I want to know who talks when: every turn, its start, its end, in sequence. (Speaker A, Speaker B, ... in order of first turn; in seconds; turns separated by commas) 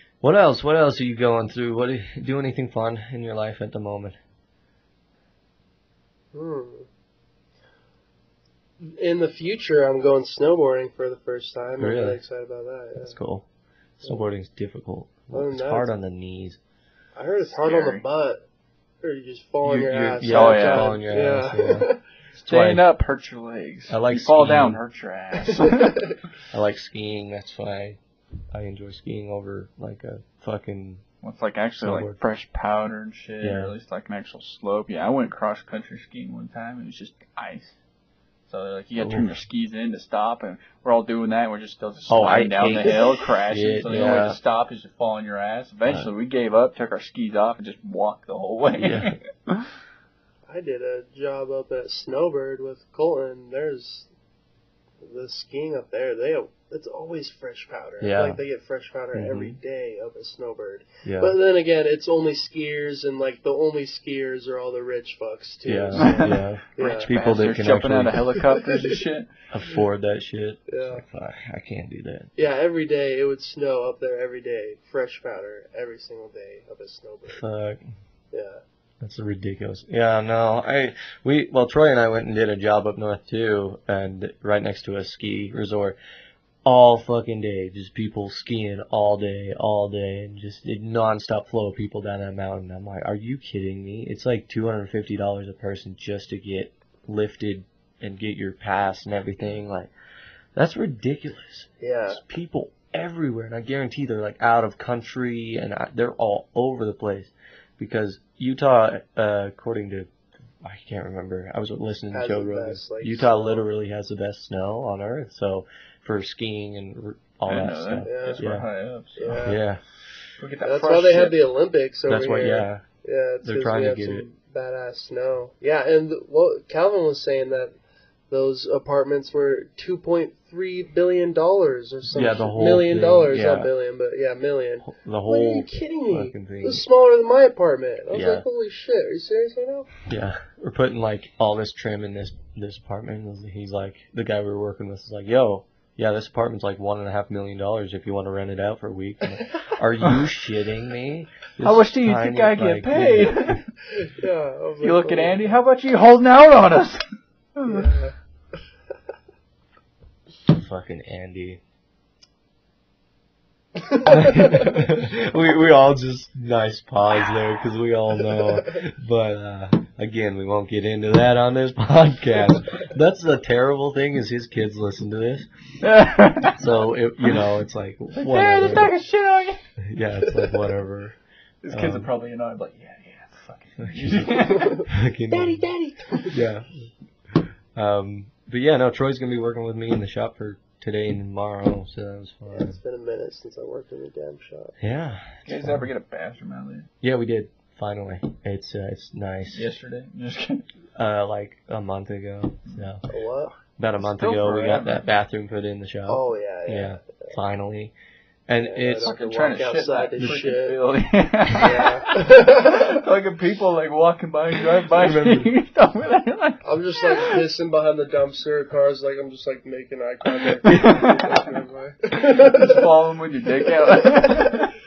Speaker A: 0.2-4.2, Speaker B: 6.3-6.9, Speaker B: 8.8-13.2, Speaker A: 11.8-12.2, Speaker A: 13.0-13.4, Speaker A: 14.0-16.6, Speaker B: 15.3-15.9, Speaker B: 17.1-18.4, Speaker C: 17.5-18.0, Speaker B: 19.0-22.0, Speaker A: 19.6-22.8, Speaker C: 20.2-21.0, Speaker C: 22.5-26.1, Speaker A: 23.9-24.8, Speaker B: 25.4-26.1, Speaker A: 26.5-28.0, Speaker A: 28.5-31.0, Speaker C: 31.2-37.7, Speaker A: 31.8-32.2, Speaker A: 33.4-33.7, Speaker C: 38.5-49.7, Speaker A: 39.0-39.3, Speaker A: 42.1-44.4, Speaker B: 42.9-43.2, Speaker A: 48.8-49.1, Speaker B: 50.5-54.1, Speaker B: 55.0-67.1, Speaker A: 58.0-58.4, Speaker A: 59.1-59.6, Speaker A: 61.0-61.4, Speaker A: 65.6-68.2, Speaker C: 66.0-69.3, Speaker B: 68.4-69.0, Speaker A: 69.5-72.3, Speaker B: 70.7-71.0, Speaker B: 72.3-77.4, Speaker A: 77.3-77.9, Speaker B: 78.3-78.6, Speaker A: 79.0-86.0, Speaker A: 86.6-99.9, Speaker A: 100.5-110.1, Speaker B: 101.8-102.2, Speaker A: 110.6-118.7, Speaker B: 112.1-113.7, Speaker C: 117.5-119.5, Speaker B: 118.0-118.4, Speaker B: 119.2-119.6, Speaker A: 119.4-119.8, Speaker C: 120.4-121.4, Speaker B: 120.6-127.7, Speaker A: 122.1-122.8, Speaker A: 123.4-124.3, Speaker B: 128.3-139.9, Speaker A: 132.1-133.7, Speaker A: 134.8-136.8, Speaker A: 138.1-138.4, Speaker A: 140.1-153.6, Speaker C: 151.6-153.7, Speaker B: 153.9-155.5, Speaker C: 154.8-157.0, Speaker C: 157.6-158.0, Speaker B: 157.6-158.1, Speaker A: 160.5-161.6, Speaker A: 163.9-175.5, Speaker B: 164.3-164.7, Speaker C: 175.8-176.6, Speaker A: 176.5-178.9, Speaker C: 178.2-179.6, Speaker A: 179.8-181.2, Speaker B: 180.2-180.7, Speaker C: 181.6-184.8, Speaker A: 181.7-182.1, Speaker A: 183.8-185.7, Speaker B: 184.4-186.4, Speaker A: 186.2-192.8, Speaker B: 192.5-194.8, Speaker A: 194.8-195.9, Speaker C: 195.4-196.9, Speaker A: 197.0-199.7, Speaker C: 199.5-200.6, Speaker A: 200.9-203.1, Speaker B: 203.1-203.5, Speaker A: 203.8-207.9, Speaker C: 204.0-205.1, Speaker B: 206.1-207.3, Speaker A: 208.5-209.2, Speaker B: 208.6-210.8, Speaker C: 209.0-217.4, Speaker B: 211.5-213.0, Speaker A: 214.9-215.5, Speaker B: 216.6-224.7, Speaker C: 220.6-221.5, Speaker A: 220.6-221.1, Speaker C: 222.2-224.7